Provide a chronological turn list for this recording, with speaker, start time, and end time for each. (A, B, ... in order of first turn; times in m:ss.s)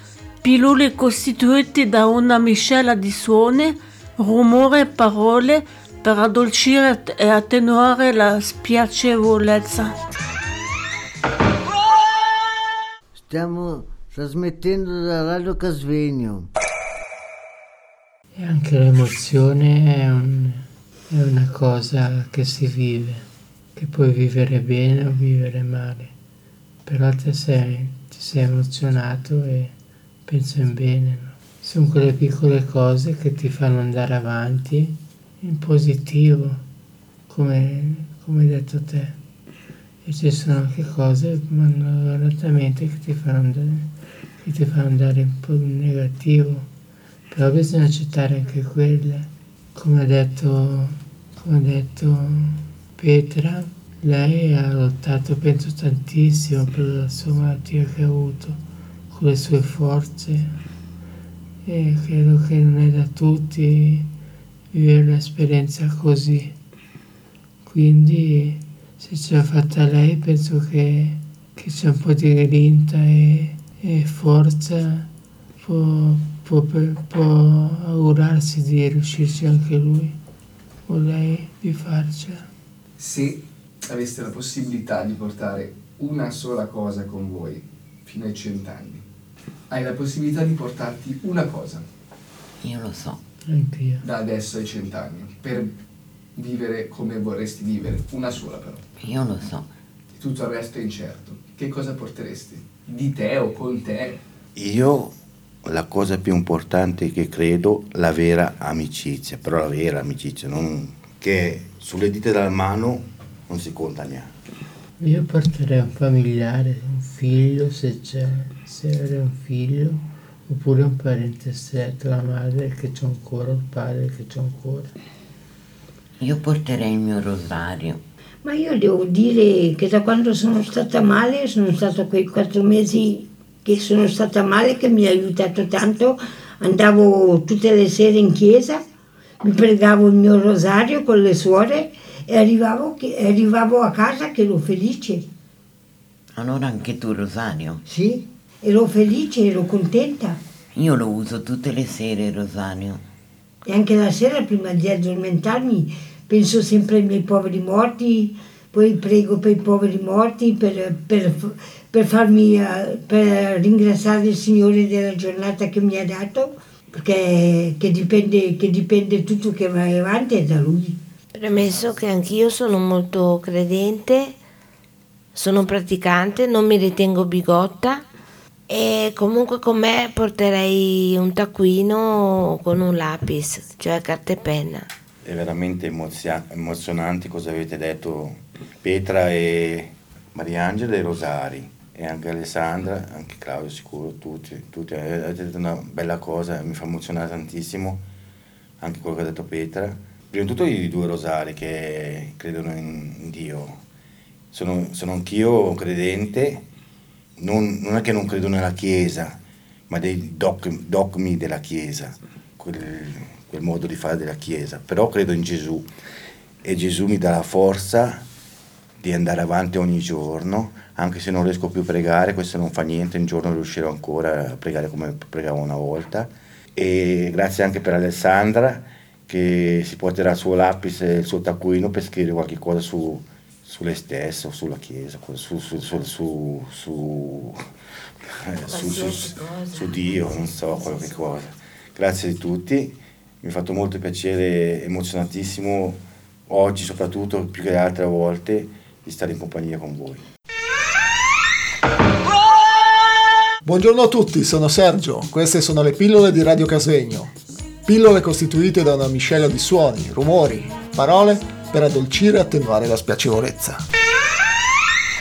0:00.4-0:09.9 A
0:13.3-0:16.5 B
0:18.4-0:23.2 C
0:23.8-0:26.1 C
0:26.8-0:29.7 C
0:30.2-0:36.6 C
0:37.3-0:39.2 C
0:40.0-0:46.7 C
0:47.3-0:58.6 C
0:59.1-1:00.6 C
1:01.6-1:04.1 C
1:04.7-1:06.5 C
1:07.6-1:15.1 C
1:15.6-1:20.2 C
1:20.9-1:22.5 C
1:23.0-1:29.0 D
1:29.7-1:31.8 D
1:32.6-1:33.2 E
1:33.5-1:34.0 C
1:34.0-1:35.7 D
1:36.4-1:38.8 D
1:39.0-1:39.7 E
1:40.2-1:44.2 D
1:44.5-1:45.1 F
1:45.6-1:54.3 F
1:55.0-2:04.9 C
2:06.2-2:08.0 E
2:08.4-2:18.8 G
2:19.4-2:25.2 G
2:26.4-2:27.8 E
2:27.8-2:30.4 G
2:30.7-2:33.0 E
2:33.6-2:51.0 G
2:51.3-2:54.4 H
2:55.3-2:58.0 H
2:58.7-3:04.9 H
3:05.2-3:18.0 F
3:18.8-3:23.8 F
3:24.5-3:26.7 F
3:27.4-3:35.9 F
3:36.6-3:38.2 F
3:39.0-3:57.5 F
3:58.4-4:10.2 F
3:58.7-4:01.2 H
4:13.6-4:17.3 I
4:17.9-4:23.8 I